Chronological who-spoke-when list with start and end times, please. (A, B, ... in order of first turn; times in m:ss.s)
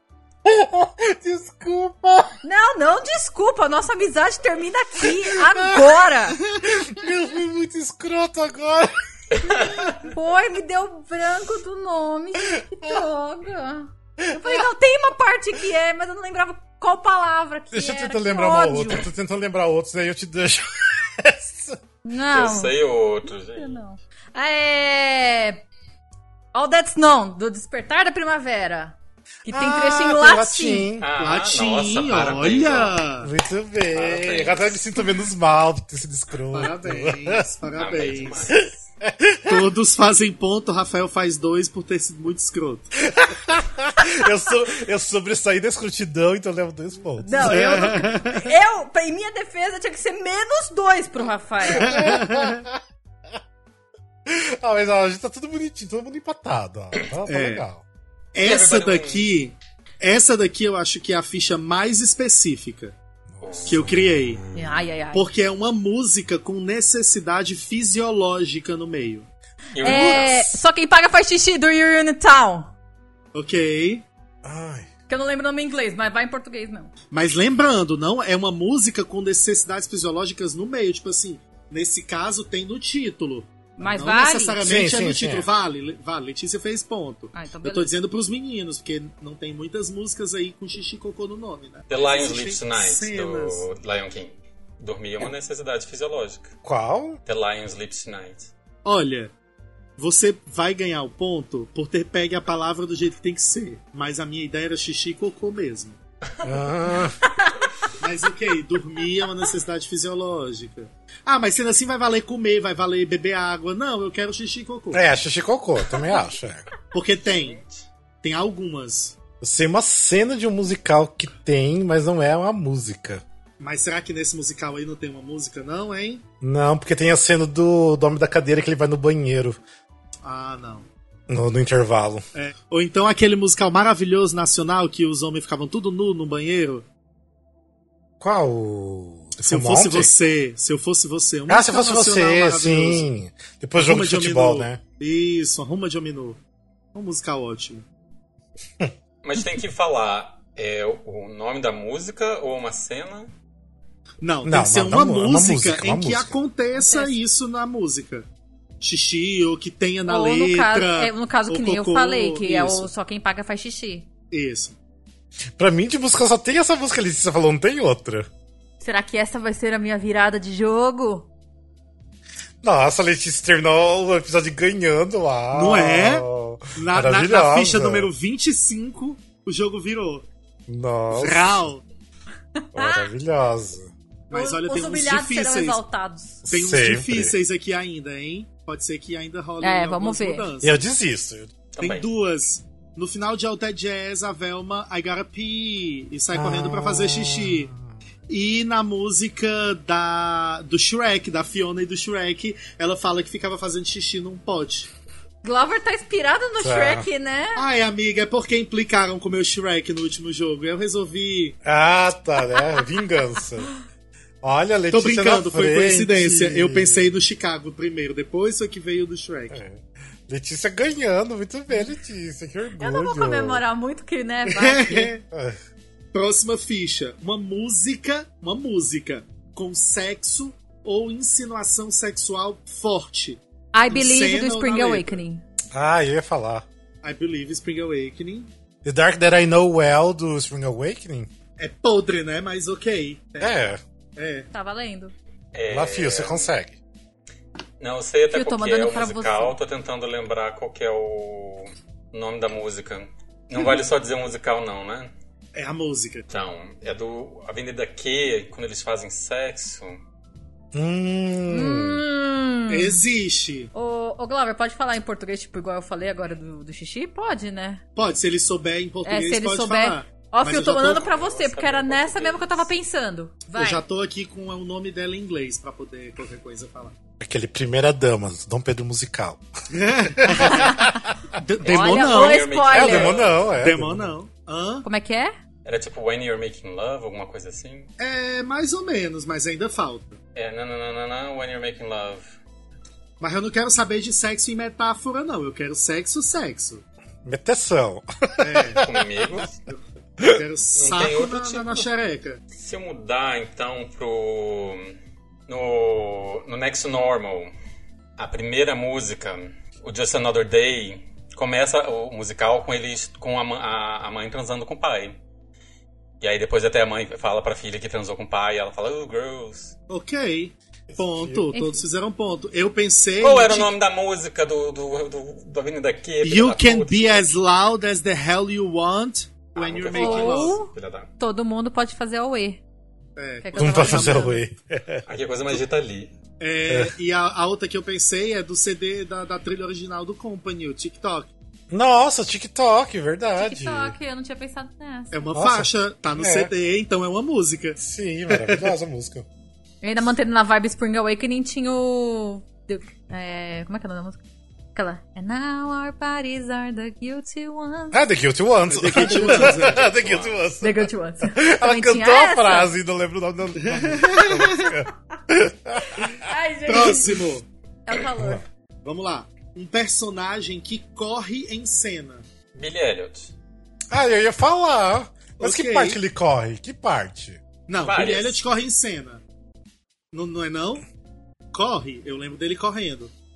0:00.4-0:02.3 A
0:02.4-0:06.4 B
0:05.2-0:05.8 A
0:06.6-0:08.9 A
0:10.0-0:19.1 B
0:14.2-0:14.6 A
0:17.7-0:21.8 A
0:22.0-0:22.7 B
0:22.3-0:23.8 C
0:23.5-0:25.6 B
0:26.5-0:28.9 B
0:29.4-0:30.9 B
0:29.5-0:31.1 A
0:31.0-0:33.0 C
0:31.2-0:33.3 D
0:33.2-0:37.4 A
0:33.9-0:34.8 C
0:36.5-0:38.5 D
0:37.7-0:38.7 C
0:38.6-0:39.7 A
0:39.5-0:42.9 D
0:43.1-0:47.9 A
0:47.2-0:52.0 B
0:47.4-0:48.4 D
0:51.7-0:52.6 D
0:51.7-0:52.8 A
0:54.2-0:57.8 A
0:57.2-0:57.6 D
0:58.3-1:02.9 D
0:58.4-0:59.3 C
1:03.3-1:04.1 A
1:03.4-1:04.8 C
1:03.7-1:04.4 D
1:04.5-1:05.2 B
1:05.1-1:09.3 D
1:09.7-1:10.5 C
1:09.8-1:12.7 B
1:13.3-1:14.0 D
1:14.4-1:14.9 A
1:15.1-1:16.9 B
1:17.1-1:33.6 D
1:23.8-1:24.6 B
1:24.6-1:25.5 A
1:27.3-1:27.9 B
1:31.9-1:36.5 C
1:36.6-1:37.2 A
1:37.2-1:38.5 C
1:38.8-1:39.3 D
1:40.0-1:46.0 D
1:46.4-1:47.2 A
1:48.0-1:55.0 D
1:54.9-1:56.6 A
1:56.9-1:57.6 D
1:57.3-1:57.7 C
1:58.2-1:59.2 D
1:59.4-2:03.2 A
2:03.6-2:06.2 D
2:06.4-2:09.6 A
2:10.2-2:10.9 D
2:11.3-2:12.2 A
2:12.3-2:16.8 D
2:18.2-2:20.1 A
2:19.4-2:23.1 D
2:21.5-2:24.8 A
2:23.8-2:26.4 D
2:26.9-2:27.8 D
2:29.2-2:33.3 C
2:34.2-2:38.3 D
2:34.4-2:36.4 A
2:36.7-2:37.2 B
2:38.8-2:42.9 D
2:40.1-2:44.1 B
2:44.3-2:44.8 D
2:45.6-2:48.3 A
2:48.8-2:51.3 B
2:52.6-2:58.1 A
2:55.5-2:56.2 D
2:56.8-3:00.2 D
3:00.7-3:01.6 A
3:01.1-3:01.8 D
3:02.6-3:03.1 B
3:02.7-3:03.9 A
3:04.3-3:05.8 D
3:04.3-3:06.5 B
3:06.4-3:07.4 A
3:06.5-3:10.7 D
3:09.6-3:10.5 B
3:10.6-3:11.5 A
3:11.7-3:12.1 C
3:11.8-3:17.7 D
3:16.3-3:18.0 A
3:18.3-3:24.9 D
3:25.4-3:27.6 B
3:26.6-3:27.1 A
3:27.6-3:31.6 D
3:31.6-3:33.7 A
3:34.4-3:37.1 A
3:34.9-3:39.6 D
3:39.5-3:43.6 A
3:42.8-3:45.1 B
3:44.5-3:45.2 D
3:45.3-3:45.6 A
3:46.1-3:55.2 D
3:53.7-3:55.4 B
3:55.7-3:56.6 A
3:57.0-3:58.5 D
3:58.8-4:01.3 A
4:01.6-4:03.6 D
4:03.4-4:03.8 A
4:04.2-4:04.5 D
4:04.5-4:05.1 B
4:05.5-4:06.5 C
4:05.7-4:06.8 A
4:07.8-4:15.1 C
4:08.3-4:09.6 B
4:15.5-4:16.2 D
4:16.3-4:20.0 C
4:20.7-4:22.0 A
4:21.5-4:23.0 B
4:22.7-4:23.7 D
4:23.7-4:27.8 B
4:28.0-4:31.1 D
4:29.0-4:33.8 B
4:31.0-4:32.7 C
4:33.5-4:36.9 D
4:37.2-4:39.4 A
4:39.7-4:40.7 D
4:40.2-4:41.0 A
4:40.3-4:41.0 B
4:41.3-4:42.5 D
4:41.6-4:43.2 B
4:41.7-4:43.5 C
4:42.6-4:44.1 A
4:43.5-4:44.8 D
4:44.8-4:45.3 B
4:45.6-4:47.9 C
4:48.0-4:50.2 D
4:50.3-4:52.2 C
4:53.2-4:56.8 D
4:57.2-4:59.0 A
4:58.4-4:58.8 D
4:58.8-4:59.6 C
4:59.7-5:02.4 D
5:00.7-5:01.9 C
5:02.5-5:05.0 C
5:05.5-5:07.5 C
5:08.2-5:15.2 C
5:16.2-5:19.7 C
5:19.9-5:23.7 D
5:20.9-5:21.5 A
5:21.5-5:21.8 B
5:23.2-5:27.3 C
5:26.2-5:30.6 D
5:29.6-5:31.1 C
5:29.9-5:32.6 B
5:33.2-5:34.4 D
5:33.4-5:34.4 B
5:33.6-5:35.0 A
5:35.1-5:36.1 C
5:36.4-5:41.3 D
5:36.7-5:36.9 A
5:41.7-5:43.9 A
5:43.4-5:45.2 B
5:45.1-5:47.8 D
5:45.3-5:46.5 A
5:47.8-5:49.2 A
5:48.3-5:48.7 D
5:49.8-5:54.2 B
5:54.7-5:58.0 B
5:57.9-6:06.2 A
5:58.7-5:59.9 D
5:59.4-6:00.4 C
6:00.6-6:02.7 B
6:03.6-6:04.4 D
6:06.1-6:07.2 B
6:06.6-6:07.4 D
6:07.8-6:08.4 B
6:08.1-6:08.4 A
6:08.8-6:12.2 D
6:12.5-6:13.3 C
6:13.9-6:17.4 A
6:15.4-6:16.0 D
6:17.7-6:19.2 D
6:17.8-6:18.4 C
6:20.1-6:20.8 D
6:21.5-6:23.1 D